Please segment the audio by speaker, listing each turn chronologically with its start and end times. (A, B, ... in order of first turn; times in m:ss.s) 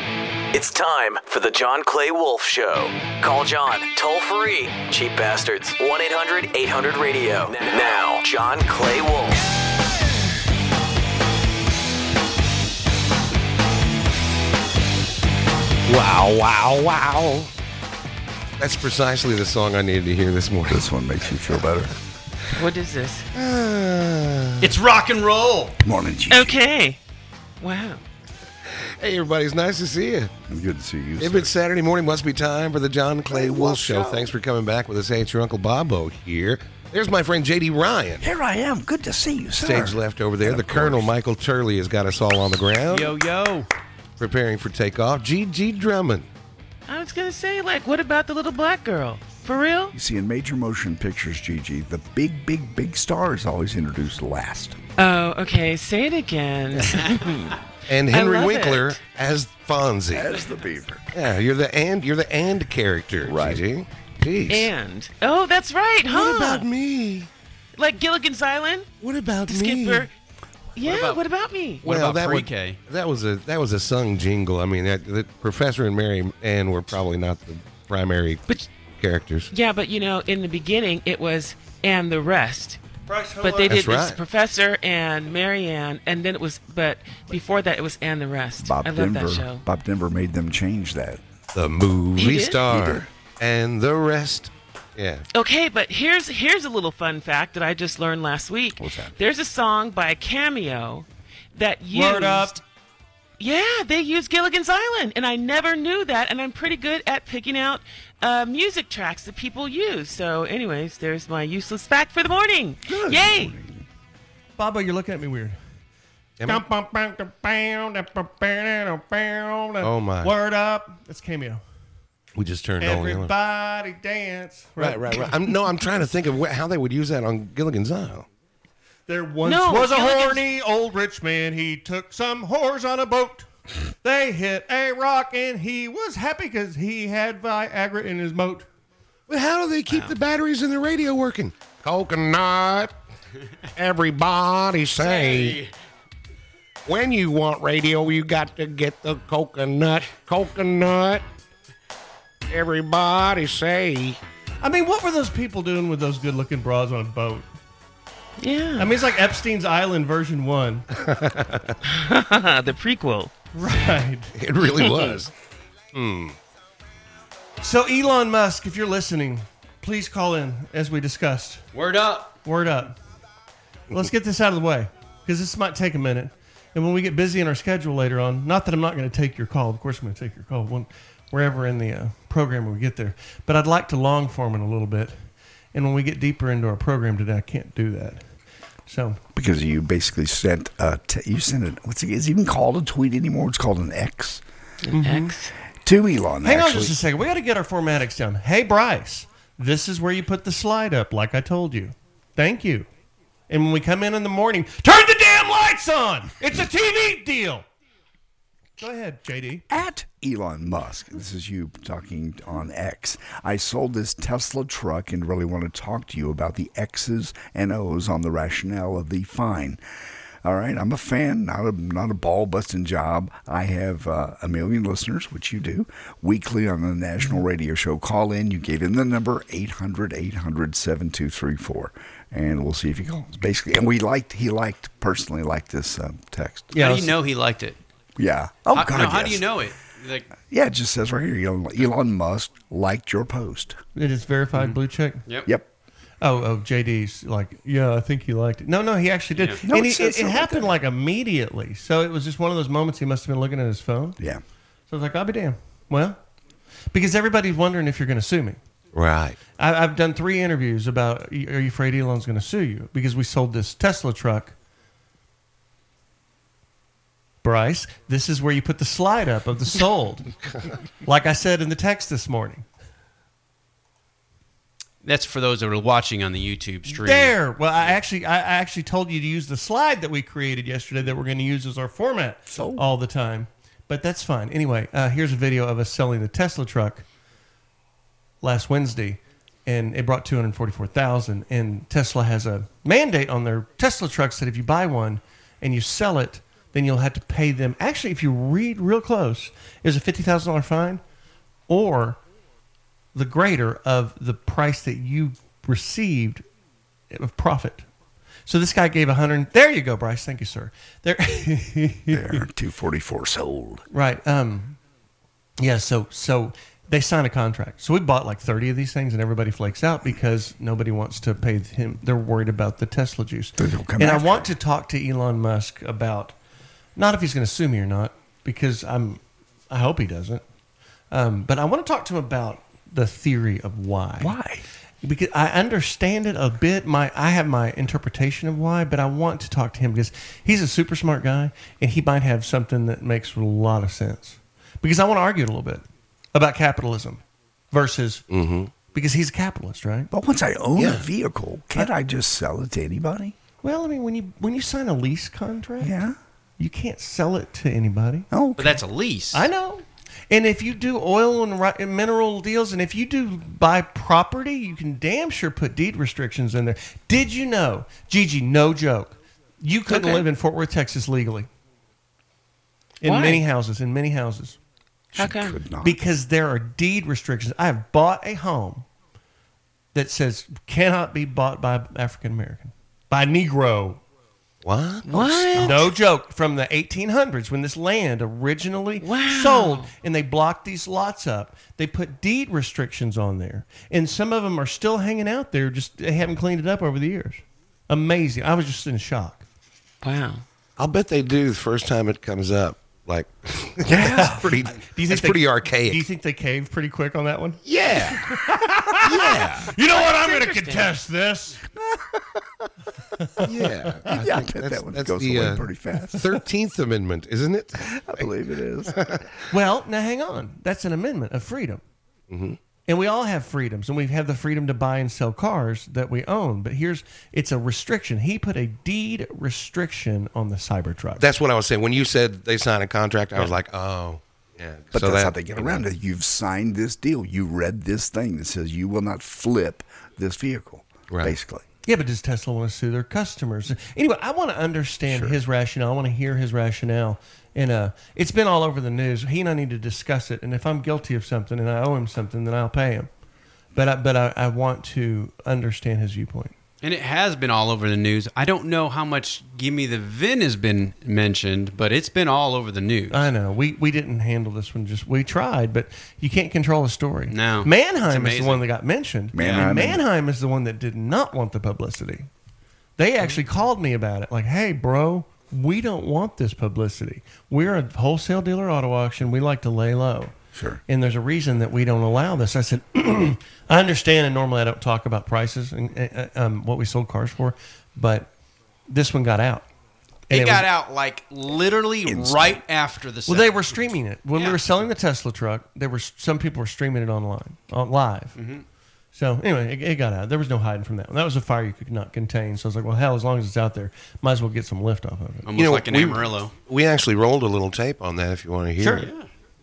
0:00.5-0:09.4 A
0:15.9-0:17.5 B
0:18.6-0:20.9 B
0:20.7-0:21.9 C
0:22.5-0:23.2 D
0:23.3-0:24.8 B
0:24.6-0:25.2 E
0:24.6-0:25.4 F
0:25.8-0:26.6 C
0:26.3-0:27.0 D
0:27.6-0:28.0 D
0:28.7-0:30.3 B
0:30.5-0:31.5 C
0:31.2-0:38.2 B
0:33.3-0:34.3 C
0:38.2-0:41.1 C
0:39.6-0:43.1 B
0:42.9-0:43.7 F
0:44.2-0:46.3 B
0:46.9-0:49.9 D
0:49.9-0:54.8 C
0:55.0-0:57.3 D
0:57.9-1:00.4 B
0:58.1-0:59.0 D
1:00.1-1:01.0 C
1:01.1-1:04.7 B
1:03.2-1:03.6 C
1:04.5-1:06.7 D
1:06.1-1:07.3 B
1:07.8-1:08.9 D
1:09.0-1:10.1 B
1:09.5-1:10.1 D
1:10.8-1:11.8 D
1:10.9-1:11.2 F
1:11.8-1:12.8 F
1:11.8-1:19.5 B
1:19.5-1:22.8 D
1:23.1-1:23.8 E
1:23.4-1:29.6 D
1:23.7-1:24.2 B
1:28.6-1:31.2 C
1:31.5-1:35.2 B
1:32.2-1:32.6 D
1:32.7-1:33.0 C
1:35.3-1:42.6 D
1:38.8-1:39.1 C
1:41.9-1:42.6 E
1:43.4-1:53.6 D
1:52.9-1:53.8 C
1:54.6-1:55.6 E
1:56.4-2:01.6 E
1:59.8-2:00.3 B
2:02.3-2:03.3 B
2:02.8-2:05.3 E
2:04.8-2:08.3 B
2:09.1-2:13.5 E
2:09.4-2:10.4 D
2:14.0-2:18.7 E
2:19.3-2:22.9 B
2:19.9-2:20.1 D
2:23.8-2:25.6 B
2:25.0-2:25.7 F
2:26.9-2:31.2 B
2:32.5-2:34.2 B
2:34.6-2:37.5 E
2:38.4-2:39.0 D
2:38.8-2:40.9 E
2:41.0-2:41.7 B
2:41.9-2:43.3 D
2:43.6-2:44.3 E
2:44.4-2:45.3 B
2:44.8-2:45.2 D
2:45.9-2:46.4 B
2:47.6-2:51.6 E
2:51.7-2:52.4 F
2:52.4-2:52.9 E
2:53.9-3:08.2 E
3:08.9-3:09.2 E
3:09.4-3:14.4 C
3:14.8-3:15.5 D
3:14.9-3:15.3 E
3:15.8-3:16.9 C
3:16.4-3:22.9 E
3:23.5-3:27.6 E
3:28.8-3:29.6 E
3:29.7-3:39.8 C
3:40.4-3:56.7 C
3:56.7-3:57.8 F
3:56.8-3:57.2 E
3:58.2-3:59.5 C
3:58.7-4:00.3 F
4:00.4-4:03.8 C
4:04.0-4:05.3 E
4:04.5-4:05.5 F
4:06.2-4:14.2 E
4:09.4-4:09.6 F
4:09.6-4:10.8 C
4:14.9-4:16.2 E
4:16.9-4:18.6 E
4:18.9-4:19.4 B
4:19.6-4:24.6 E
4:27.4-4:30.3 E
4:31.0-4:32.6 E
4:35.0-4:37.4 F
4:36.9-4:47.0 E
4:42.5-4:42.8 C
4:48.4-5:01.0 E
5:01.7-5:02.2 E
5:03.1-5:06.4 E
5:07.1-5:07.9 E
5:08.5-5:12.4 E
5:12.1-5:13.8 C
5:13.9-5:14.8 E
5:15.6-5:26.4 E
5:23.6-5:24.5 C
5:27.0-5:30.4 E
5:31.1-5:34.4 E
5:34.2-5:34.6 C
5:35.0-5:45.8 E
5:46.3-5:47.2 E
5:47.7-5:48.2 E
5:48.3-5:48.7 B
5:48.9-5:50.1 E
5:50.1-5:53.4 C
5:50.8-5:51.1 B
5:53.6-5:55.9 E
5:55.8-5:56.2 C
5:56.6-5:58.3 E
5:58.3-5:58.8 C
5:58.6-5:59.5 F
5:59.3-6:11.5 E
6:09.9-6:10.2 D
6:13.0-6:14.6 E
6:13.0-6:13.4 D
6:15.2-6:16.0 C
6:15.2-6:15.6 D
6:15.8-6:18.9 E
6:19.9-6:24.0 E
6:24.6-6:25.2 B
6:25.0-6:25.8 D
6:25.1-6:25.9 C
6:25.6-6:39.4 E
6:29.0-6:29.9 D
6:40.0-6:40.4 D
6:40.8-6:46.0 B
6:43.9-6:44.7 C
6:44.0-6:47.6 E
6:47.7-6:48.2 B
6:48.1-6:51.6 E
6:49.0-6:49.7 B
6:49.8-6:50.9 D
6:53.4-6:53.9 E
6:53.4-6:55.6 B
6:54.1-6:56.3 C
6:56.2-6:58.2 B
6:57.8-6:58.9 C
6:58.9-6:59.2 B
6:59.5-7:01.8 E
7:02.3-7:02.6 B
7:02.9-7:11.2 E
7:11.2-7:15.8 B
7:14.9-7:21.6 C
7:21.1-7:21.4 B
7:21.8-7:33.1 E
7:25.1-7:25.4 C
7:33.8-7:36.6 E
7:36.8-7:43.3 F
7:43.1-7:52.3 E
7:47.3-7:48.6 F
7:49.3-7:50.0 C
7:49.4-7:49.7 F
7:53.0-8:00.3 E
8:00.5-8:00.8 C
8:00.9-8:08.3 E
8:08.9-8:09.7 E
8:10.3-8:10.7 E
8:10.3-8:13.8 F
8:12.0-8:12.6 C
8:13.3-8:18.4 E
8:14.3-8:14.6 F
8:18.4-8:18.6 F
8:19.1-8:25.5 E
8:25.4-8:26.5 F
8:25.5-8:29.1 B
8:28.8-8:29.1 E
8:29.0-8:29.3 F